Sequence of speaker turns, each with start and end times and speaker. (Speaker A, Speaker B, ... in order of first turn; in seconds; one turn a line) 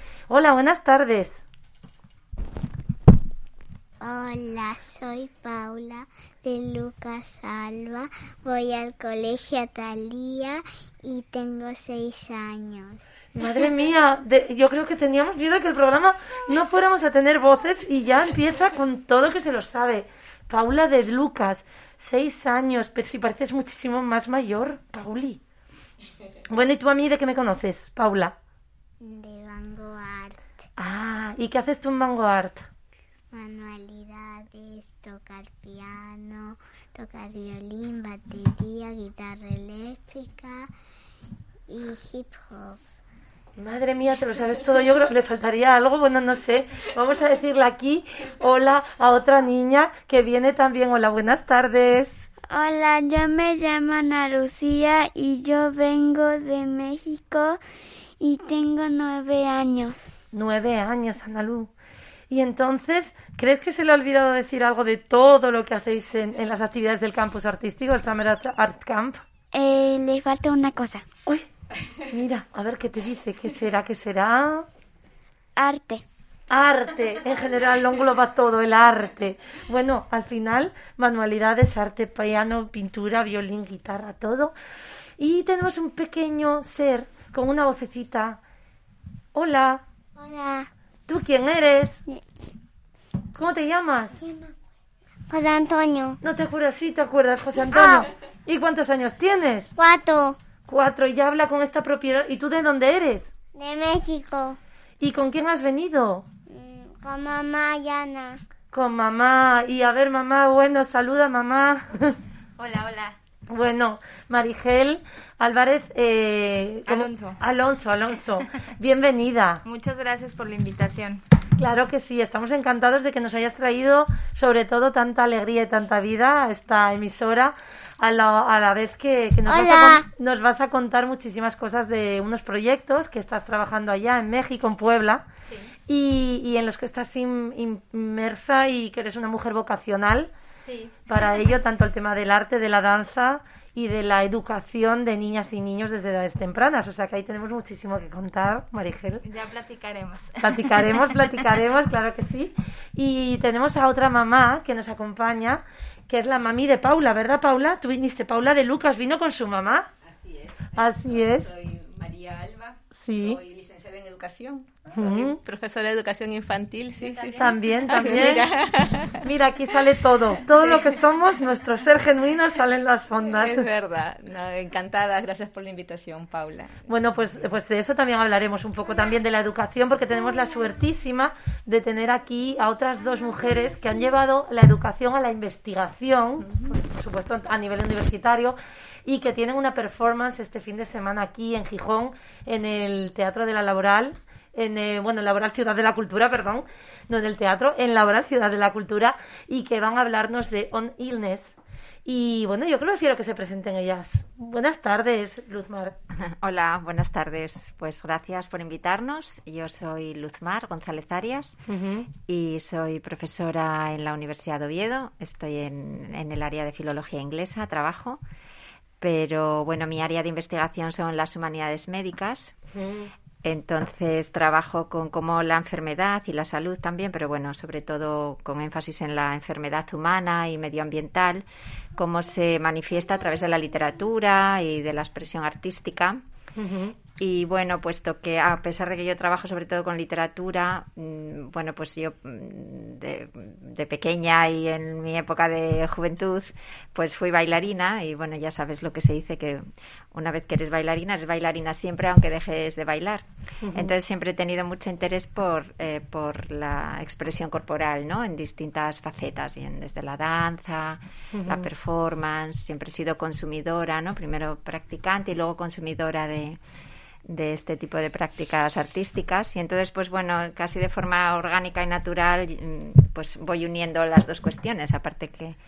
Speaker A: 0.3-1.4
Speaker B: 4.0-13.0
Speaker A: 13.4-25.4
Speaker A: 26.5-28.3
Speaker B: 29.0-30.4
Speaker A: 30.8-32.7
Speaker B: 33.3-40.7
Speaker B: 41.7-42.8
Speaker A: 43.6-52.3
Speaker C: 52.5-57.6
Speaker C: 58.2-60.1
Speaker A: 60.3-61.7
Speaker A: 62.3-69.2
Speaker C: 69.5-71.1
Speaker A: 72.1-74.7
Speaker C: 75.6-76.0
Speaker A: 76.5-84.5
Speaker A: 85.2-88.4
Speaker A: 89.3-89.8
Speaker B: 90.2-90.7
Speaker A: 91.1-92.0
Speaker A: 93.3-94.2
Speaker B: 94.2-94.5
Speaker B: 95.3-96.2
Speaker A: 96.2-99.7
Speaker B: 97.7-98.1
Speaker B: 99.8-100.4
Speaker A: 100.7-103.3
Speaker B: 103.5-104.6
Speaker A: 105.0-106.3
Speaker B: 106.5-108.4
Speaker A: 108.7-112.2
Speaker D: 112.6-113.2
Speaker A: 113.5-119.6
Speaker D: 116.9-117.4
Speaker D: 119.7-121.2
Speaker A: 121.6-135.2
Speaker B: 129.5-130.1
Speaker A: 135.9-140.3
Speaker D: 140.6-140.9
Speaker A: 141.1-149.2
Speaker D: 149.2-151.1
Speaker A: 150.4-159.9
Speaker E: 160.1-169.3
Speaker A: 160.8-161.5
Speaker A: 162.9-163.4
Speaker A: 164.9-165.4
Speaker D: 167.0-168.3
Speaker A: 167.4-168.5
Speaker A: 169.2-173.7
Speaker E: 170.6-171.0
Speaker E: 173.4-176.8
Speaker A: 176.9-201.6
Speaker A: 202.1-205.9
Speaker F: 206.2-211.6
Speaker A: 211.7-212.1
Speaker F: 212.2-218.2
Speaker F: 219.0-222.5
Speaker A: 222.8-223.1
Speaker F: 223.4-231.4
Speaker F: 232.0-236.2
Speaker A: 236.6-237.0
Speaker F: 237.1-266.6
Speaker A: 253.6-253.9
Speaker A: 261.3-261.7
Speaker F: 267.3-275.6